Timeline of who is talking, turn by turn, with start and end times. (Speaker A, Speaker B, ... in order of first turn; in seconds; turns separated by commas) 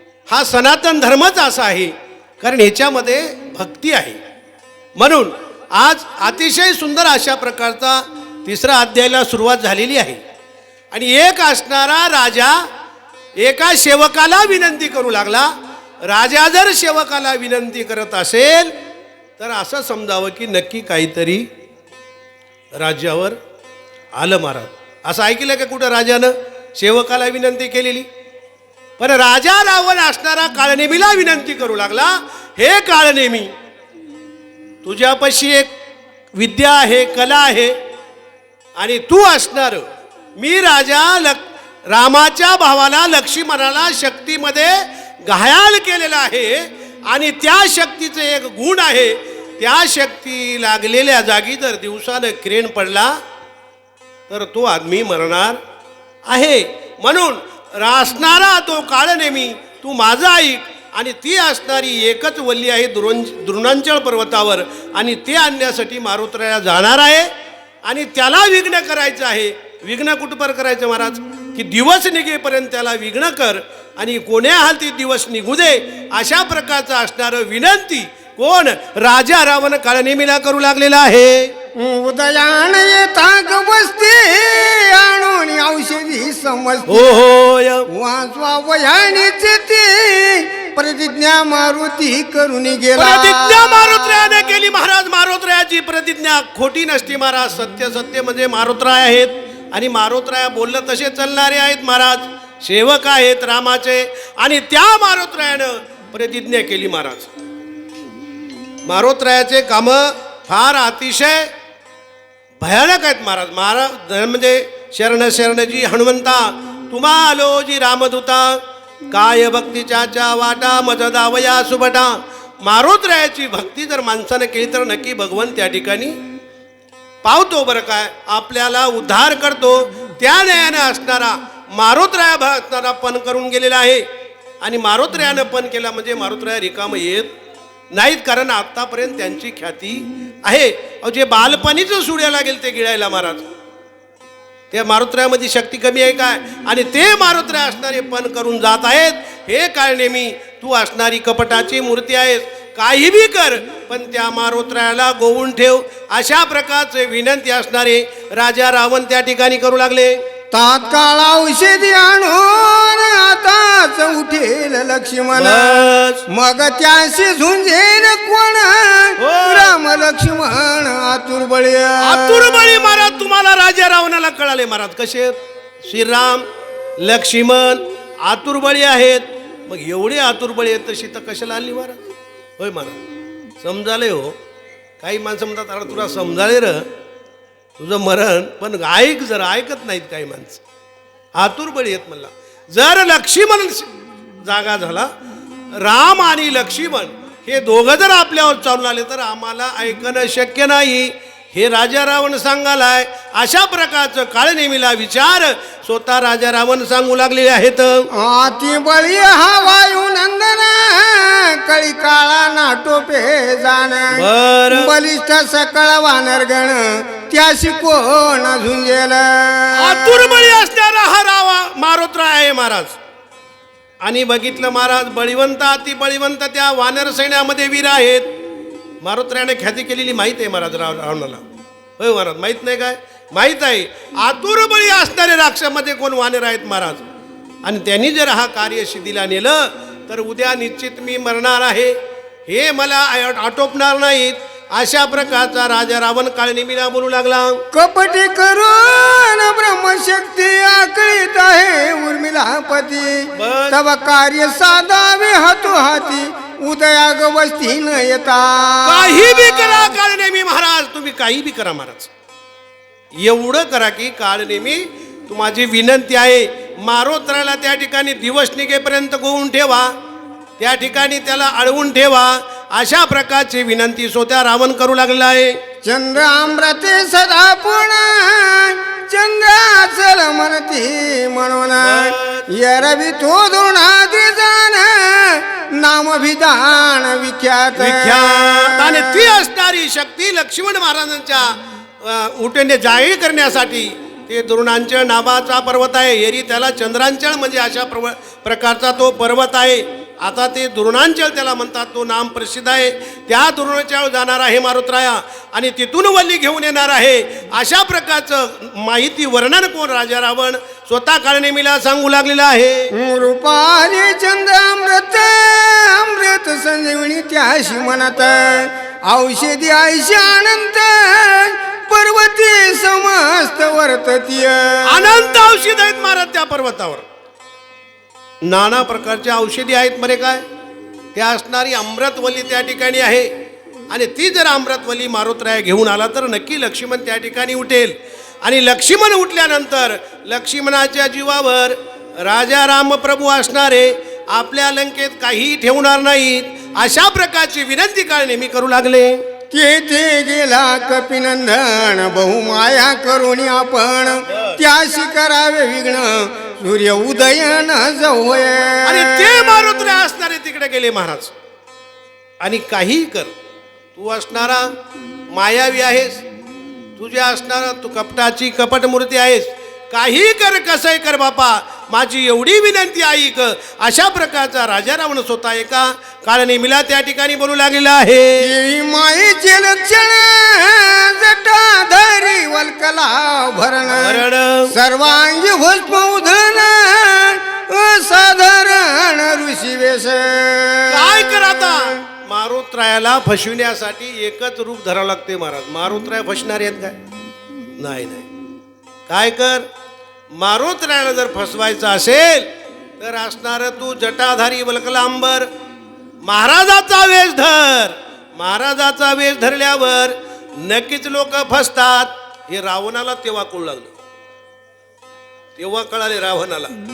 Speaker A: 0.3-4.2, Speaker A: 5.0-10.2, Speaker A: 10.9-12.6, Speaker A: 13.4-15.5, Speaker A: 16.0-18.7, Speaker A: 19.4-21.5, Speaker A: 22.8-23.4, Speaker A: 24.1-28.1, Speaker A: 29.0-33.5, Speaker A: 34.8-35.7, Speaker A: 36.4-37.8, Speaker A: 38.8-39.9, Speaker A: 40.4-53.1, Speaker A: 54.3-55.6, Speaker A: 56.3-67.3, Speaker A: 67.9-81.5, Speaker B: 81.8-87.2, Speaker A: 86.9-87.9, Speaker B: 87.9-94.3, Speaker A: 93.0-107.3, Speaker A: 108.8-111.5, Speaker A: 112.6-126.2, Speaker A: 127.2-134.1, Speaker A: 134.6-137.3, Speaker A: 137.9-143.5, Speaker A: 144.7-160.2, Speaker B: 160.5-172.7, Speaker A: 165.4-166.2, Speaker A: 169.2-169.8, Speaker A: 172.0-176.5, Speaker A: 177.0-182.0, Speaker A: 182.6-183.0, Speaker A: 183.6-184.4, Speaker A: 185.0-186.9, Speaker A: 187.8-190.6, Speaker A: 191.3-193.9, Speaker A: 194.4-195.1, Speaker A: 195.8-208.1, Speaker B: 208.1-220.4, Speaker A: 214.1-214.9, Speaker A: 219.8-223.0, Speaker A: 224.0-228.3, Speaker A: 229.0-231.4, Speaker A: 232.0-237.1, Speaker A: 237.6-241.9, Speaker A: 242.5-247.6, Speaker B: 247.7-259.9, Speaker A: 253.4-253.8, Speaker A: 258.9-262.1, Speaker A: 263.2-269.9, Speaker A: 270.6-275.6, Speaker B: 275.8-289.2, Speaker A: 281.8-282.5, Speaker A: 287.8-312.9, Speaker B: 312.9-325.4, Speaker A: 324.9-327.1, Speaker A: 328.4-330.4, Speaker A: 331.1-333.3, Speaker A: 333.9-349.2, Speaker B: 349.5-359.6, Speaker A: 354.3-354.6, Speaker A: 358.9-361.3, Speaker A: 362.4-363.3, Speaker A: 363.9-364.7, Speaker A: 365.3-366.2, Speaker A: 367.0-378.5, Speaker B: 378.4-391.3, Speaker A: 383.9-384.7, Speaker A: 390.9-397.0, Speaker A: 397.8-398.3, Speaker A: 399.1-399.7, Speaker A: 400.4-402.5, Speaker A: 403.0-405.5, Speaker A: 406.2-413.9, Speaker A: 415.6-416.7